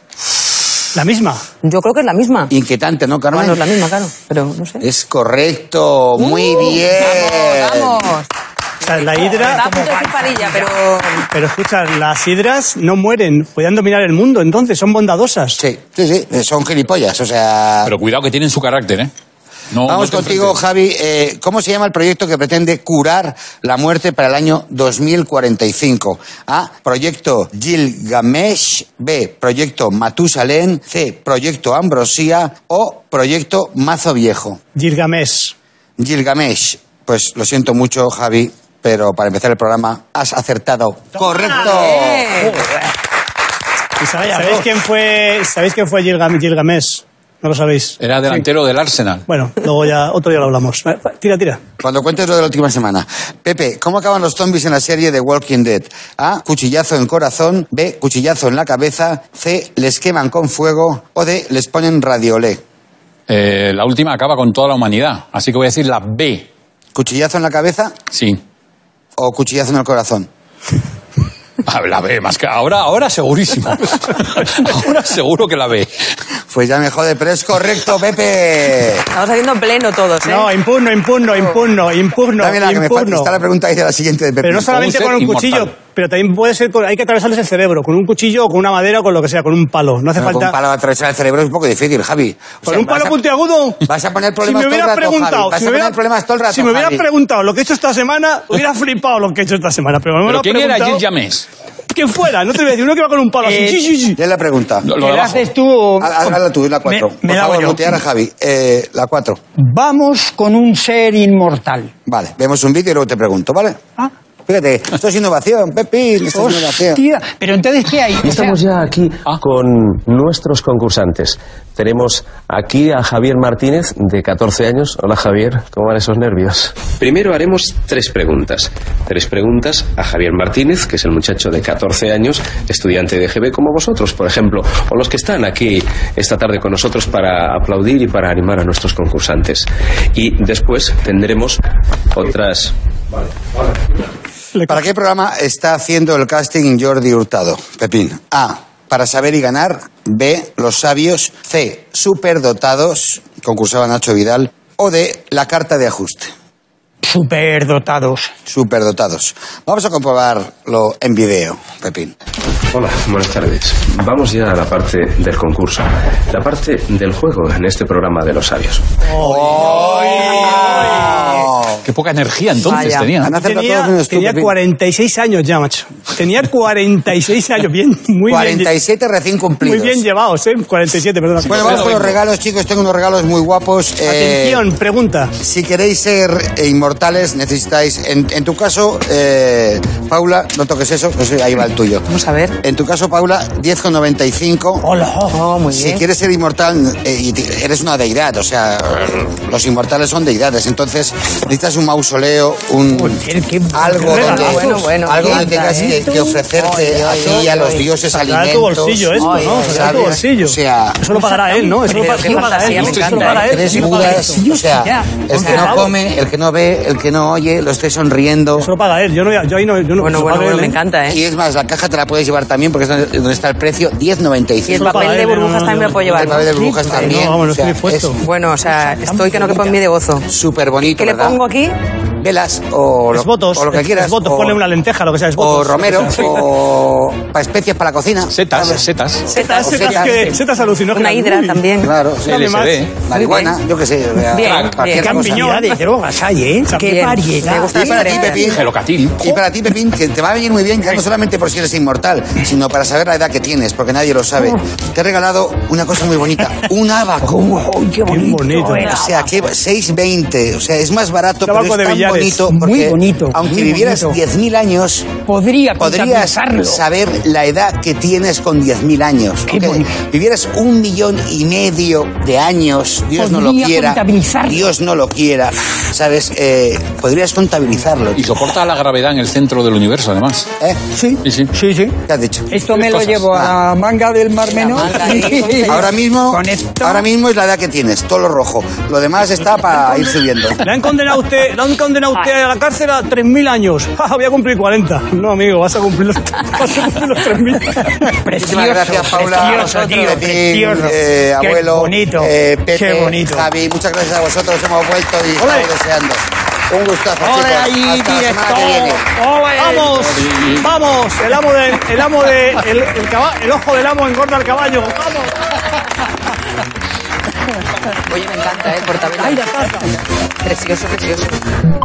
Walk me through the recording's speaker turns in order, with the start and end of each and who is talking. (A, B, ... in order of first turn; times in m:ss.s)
0:00.9-0:01.4 A
0:01.6-0:02.5 B
0:02.5-0:03.6 C
0:03.3-0:04.8 B
0:04.8-0:08.0 C
0:06.2-0:08.3 B
0:08.8-0:09.7 A
0:09.0-0:11.2 B
0:09.2-0:10.7 D
0:11.3-0:15.6 A
0:15.6-0:17.9 C
0:17.8-0:19.1 E
0:19.7-0:20.6 E
0:19.8-0:34.6 C
0:34.7-0:35.5 A
0:36.0-0:42.3 C
0:41.4-0:41.8 A
0:41.5-0:42.6 B
0:44.0-0:48.0 A
0:44.2-0:44.6 D
0:48.0-0:49.2 E
0:49.3-0:51.6 A
0:51.8-1:02.6 C
1:03.3-1:06.5 E
1:06.9-1:07.9 C
1:08.1-1:08.4 E
1:09.2-1:10.3 C
1:11.6-1:16.0 E
1:16.5-1:19.0 C
1:19.1-1:20.5 B
1:20.2-1:23.3 A
1:22.4-1:24.9 C
1:24.4-1:30.5 A
1:24.7-1:25.7 E
1:30.2-1:33.2 C
1:32.6-1:33.8 A
1:33.8-1:37.0 C
1:34.4-1:36.0 A
1:36.5-1:41.0 A
1:40.2-1:41.4 E
1:41.9-1:44.2 A
1:43.4-1:43.9 D
1:44.2-1:44.9 C
1:44.8-1:45.5 E
1:44.9-1:48.0 D
1:46.0-1:49.4 C
1:49.6-1:51.9 D
1:52.1-1:53.8 C
1:54.5-1:57.0 C
1:56.3-1:58.6 D
1:58.2-2:21.6 F
2:22.1-2:22.7 F
2:24.5-2:24.8 A
2:24.7-2:36.3 C
2:37.0-2:38.3 D
2:38.5-2:42.1 C
2:42.7-2:49.0 F
2:49.0-2:51.4 A
2:49.2-2:51.8 C
2:51.8-2:53.3 E
2:52.6-2:53.1 B
2:53.2-2:54.5 C
2:53.3-2:58.7 A
2:58.3-3:00.0 C
2:59.6-3:02.0 A
3:01.4-3:02.1 E
3:01.5-3:04.6 C
3:04.0-3:05.3 A
3:05.4-3:12.0 C
3:12.1-3:12.6 B
3:12.6-3:14.8 C
3:14.8-3:15.4 D
3:15.3-3:16.0 B
3:15.7-3:31.0 C
3:22.9-3:26.4 D
3:24.1-3:24.6 A
3:24.1-3:27.8 B
3:27.2-3:27.6 D
3:28.2-3:34.4 A
3:29.2-3:30.1 B
3:31.1-3:33.2 D
3:31.4-3:33.5 B
3:32.7-3:33.6 E
3:33.2-3:38.7 C
3:33.7-3:35.8 D
3:35.3-3:35.9 A
3:38.6-3:40.8 A
3:40.0-3:41.2 B
3:41.1-3:45.0 C
3:44.7-3:47.0 B
3:44.7-3:48.2 A
3:46.1-3:48.2 C
3:48.2-3:50.3 B
3:48.8-3:49.6 D
3:50.3-3:51.4 C
3:51.0-3:51.7 B
3:52.2-3:54.6 C
3:53.1-3:56.5 A
3:55.4-3:58.8 C
3:58.3-3:59.3 E
3:59.3-4:00.3 B
3:59.3-4:01.7 A
3:59.4-4:00.3 C
4:00.9-4:01.9 B
4:01.8-4:02.4 C
4:02.2-4:02.8 A
4:02.2-4:02.9 E
4:03.0-4:05.5 C
4:03.1-4:03.6 B
4:04.3-4:05.1 B
4:04.4-4:04.8 E
4:05.0-4:08.4 D
4:05.0-4:05.8 A
4:06.7-4:08.4 B
4:07.4-4:08.6 C
4:08.4-4:09.2 E
4:09.2-4:17.4 C
4:17.2-4:19.2 D
4:18.0-4:18.9 A
4:18.6-4:19.2 B
4:18.9-4:25.1 C
4:21.4-4:22.4 A
4:22.4-4:24.2 D
4:25.2-4:26.8 D
4:25.8-4:38.3 C
4:29.5-4:29.9 D
4:33.2-4:34.7 D
4:38.2-4:40.5 E
4:40.9-4:42.0 D
4:41.2-4:41.5 E
4:42.1-4:42.5 C
4:42.5-4:47.0 D
4:42.7-4:43.2 E
4:44.5-4:45.8 B
4:45.6-4:50.6 C
4:50.6-4:57.9 A
4:57.8-5:03.4 D
4:58.3-5:09.0 C
4:59.2-5:00.2 B
5:05.4-5:05.7 A
5:07.2-5:10.4 D
5:09.5-5:15.3 A
5:18.1-5:19.9 B
5:19.4-5:19.9 A
5:20.4-5:21.4 B